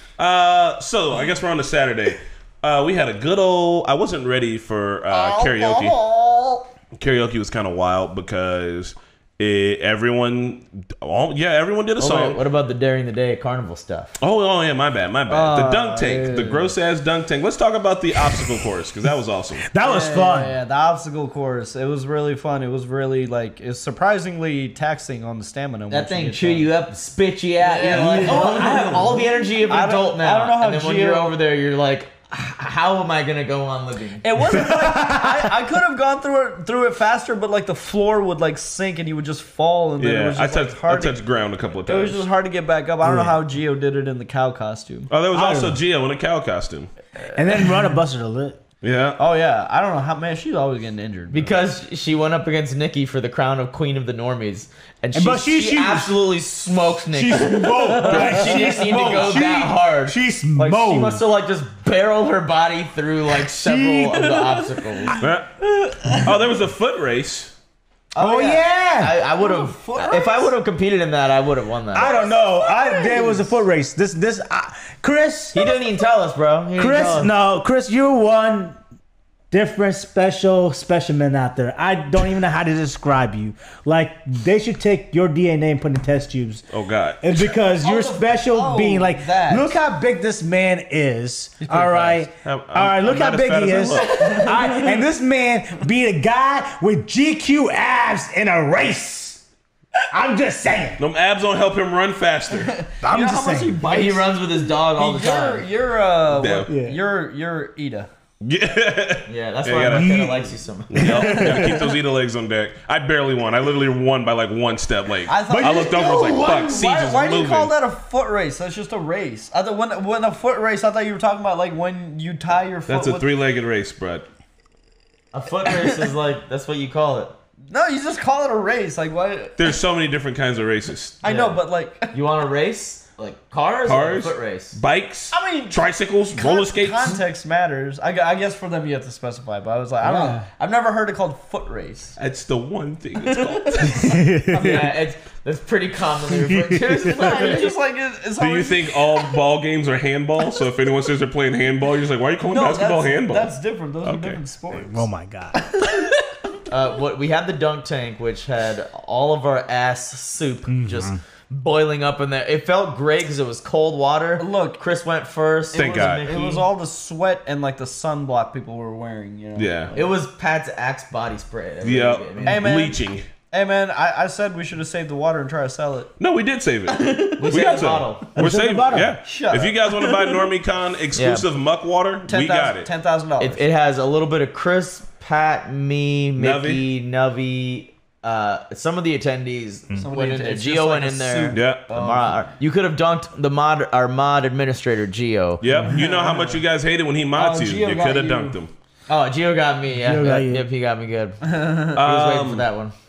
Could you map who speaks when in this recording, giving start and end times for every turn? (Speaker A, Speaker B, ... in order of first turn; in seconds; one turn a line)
Speaker A: 0.2-6.0
Speaker B: 5.1-6.7
Speaker A: 7.0-12.4
Speaker C: 12.0-14.2
Speaker A: 14.2-19.6
Speaker B: 15.3-16.7
Speaker D: 19.7-20.6
Speaker B: 19.8-26.7
Speaker C: 25.9-34.6
Speaker B: 27.6-31.4
Speaker B: 34.2-41.2
Speaker D: 34.6-35.5
Speaker A: 40.0-42.3
Speaker B: 41.9-45.1
Speaker D: 43.0-43.4
Speaker A: 45.1-46.9
Speaker D: 45.3-45.8
Speaker B: 47.3-47.6
Speaker D: 47.3-48.6
Speaker A: 48.8-49.2
Speaker B: 49.2-51.5
Speaker C: 51.3-65.2
Speaker D: 55.1-56.1
Speaker D: 57.1-61.2
Speaker B: 57.7-59.4
Speaker D: 63.5-64.5
Speaker B: 65.0-66.3
Speaker A: 65.2-65.5
Speaker A: 66.0-67.5
Speaker C: 68.2-72.2
Speaker D: 68.2-69.1
Speaker B: 69.4-70.5
Speaker D: 71.9-75.7
Speaker B: 72.8-73.3
Speaker C: 75.5-77.3
Speaker D: 76.8-78.8
Speaker D: 79.5-86.7
Speaker A: 86.7-87.6
Speaker D: 87.2-99.4
Speaker B: 87.8-89.8
Speaker B: 91.6-92.2
Speaker A: 92.4-94.5
Speaker B: 94.0-95.0
Speaker D: 100.1-101.0
Speaker A: 101.0-102.8
Speaker B: 102.6-108.1
Speaker D: 103.0-103.8
Speaker C: 103.8-105.7
Speaker A: 106.3-106.7
Speaker D: 106.7-107.0
Speaker A: 108.4-117.7
Speaker C: 109.3-111.7
Speaker D: 109.8-111.9
Speaker B: 115.3-123.3
Speaker D: 115.5-116.4
Speaker A: 122.9-124.3
Speaker C: 125.3-127.3
Speaker B: 125.6-126.1
Speaker B: 127.7-129.6
Speaker A: 129.6-131.2
Speaker B: 131.2-132.2
Speaker C: 131.2-131.6
Speaker C: 132.1-134.8
Speaker A: 133.8-137.2
Speaker B: 135.3-135.8
Speaker B: 136.3-142.2
Speaker D: 140.0-140.4
Speaker A: 142.2-144.3
Speaker B: 143.2-144.0
Speaker D: 143.9-144.9
Speaker C: 144.5-147.7
Speaker D: 146.3-147.4
Speaker B: 147.0-149.3
Speaker A: 148.4-154.4
Speaker B: 152.5-155.1
Speaker D: 154.7-155.7
Speaker B: 155.6-156.0
Speaker C: 156.7-166.7
Speaker D: 160.7-161.2
Speaker B: 164.4-164.8
Speaker B: 165.7-170.1
Speaker A: 165.7-166.4
Speaker A: 169.6-169.9
Speaker C: 169.9-172.7
Speaker A: 171.8-173.3
Speaker B: 172.4-176.1
Speaker A: 176.2-182.9
Speaker B: 176.9-177.6
Speaker C: 177.4-178.4
Speaker D: 178.4-179.2
Speaker B: 179.2-180.4
Speaker C: 181.1-181.5
Speaker B: 182.3-183.6
Speaker C: 183.4-195.7
Speaker A: 186.4-186.8
Speaker B: 190.0-192.3
Speaker A: 191.5-191.9
Speaker A: 195.6-198.7
Speaker B: 195.8-196.6
Speaker B: 197.4-198.6
Speaker C: 199.1-201.4
Speaker D: 200.0-200.7
Speaker B: 201.4-202.0
Speaker C: 201.9-202.9
Speaker A: 201.9-202.7